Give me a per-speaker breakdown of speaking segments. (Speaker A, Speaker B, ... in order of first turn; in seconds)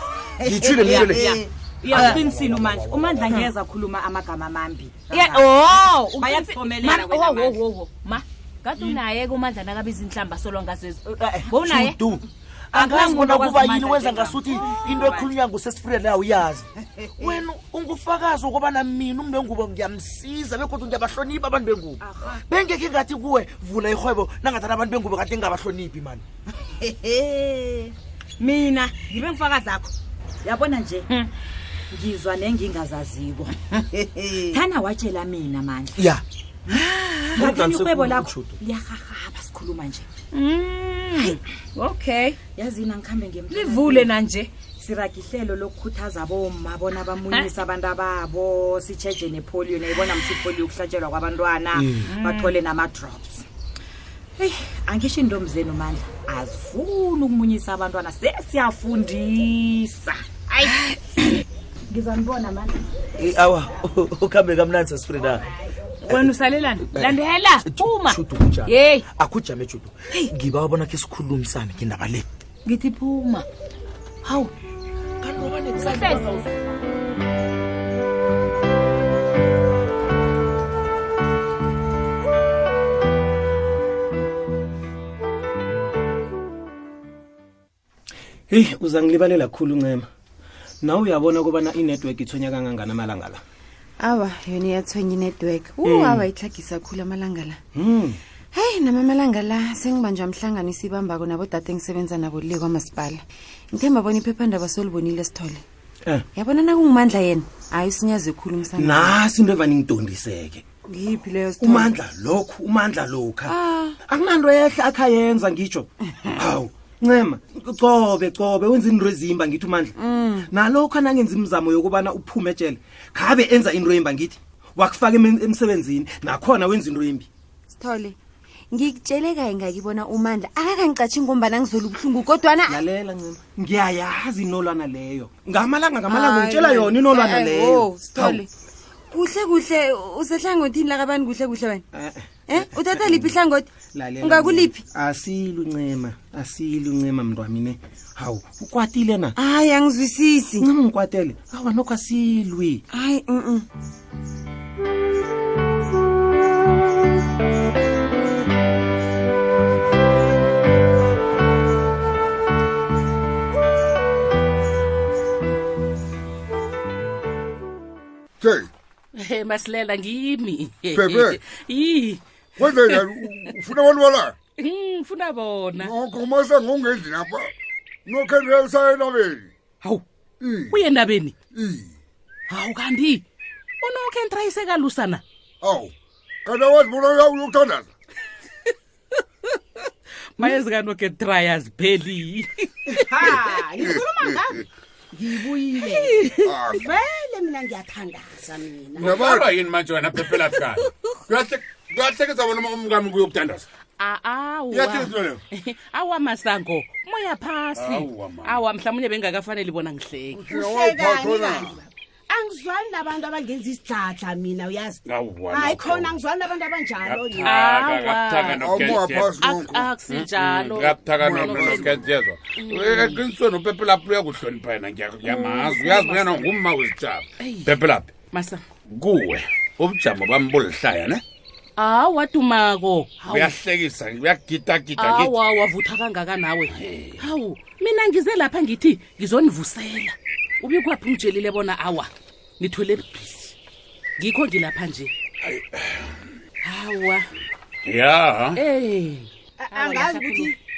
Speaker A: 0.5-1.2, 1.9-3.1, 11.7-12.2, 12.7-16.7, 17.2-26.2, 36.0-36.2, 37.4-38.5, 63.2-65.4, 67.7-72.2, 75.2-75.7
Speaker B: 0.5-1.4, 5.1-12.0, 12.7-15.2, 43.7-44.4, 66.1-69.0, 72.7-73.4, 75.7-76.2
Speaker C: 0.5-7.6, 8.8-9.0, 14.5-15.2, 17.1-17.4, 22.0-22.4, 26.6-29.9, 30.4-31.1, 31.9-33.5, 34.5-36.0, 36.7-40.1, 42.5-53.4, 54.4-60.7, 61.9-62.8
Speaker D: 40.3-42.4, 94.0-97.6, 98.5-105.6, 106.3-109.2, 110.9-111.9, 113.5-113.9, 120.0-120.5, 127.8-128.1, 128.7-132.8, 136.1-138.5, 139.1-141.8, 142.5-143.7, 144.2-144.8, 149.4-150.7, 152.9-153.6
Speaker E: 75.8-76.2, 88.5-90.0, 90.8-93.4, 95.8-96.3, 97.7-98.2, 108.8-110.6, 111.6-119.9, 120.5-127.3, 132.7-138.4, 141.9-143.4, 143.9-149.3, 150.6-152.8
Speaker F: 168.4-168.7, 170.9-171.4, 172.6-174.3, 175.8-177.5, 178.1-179.5, 180.4-180.8, 181.5-181.9, 185.6-185.9, 186.4-187.9, 193.8-194.6, 196.4-196.8, 199.1-199.5, 210.5-211.8, 218.6-219.9, 221.2-222.0
Speaker G: 169.2-173.5, 174.6-175.9, 180.7-181.3, 182.5-183.2, 183.8-185.2, 190.4-193.5, 195.7-196.4, 204.0-210.4, 217.4-218.8, 219.4-221.9, 222.6-223.2, 225.2-226.5, 227.4-227.7, 228.3-228.6, 231.8-233.6, 235.0-243.5, 244.2-245.1, 246.6-247.2, 248.5-250.5
Speaker H: 193.1-194.6, 195.1-199.1, 210.3-217.5, 249.6-250.5
Speaker I: 199.0-203.7, 204.7-205.4, 207.8-208.6, 215.1-216.2, 217.0-219.4, 220.1-228.1, 228.9-231.2, 233.2-235.3, 236.7-237.2, 245.4-246.1, 247.8-248.6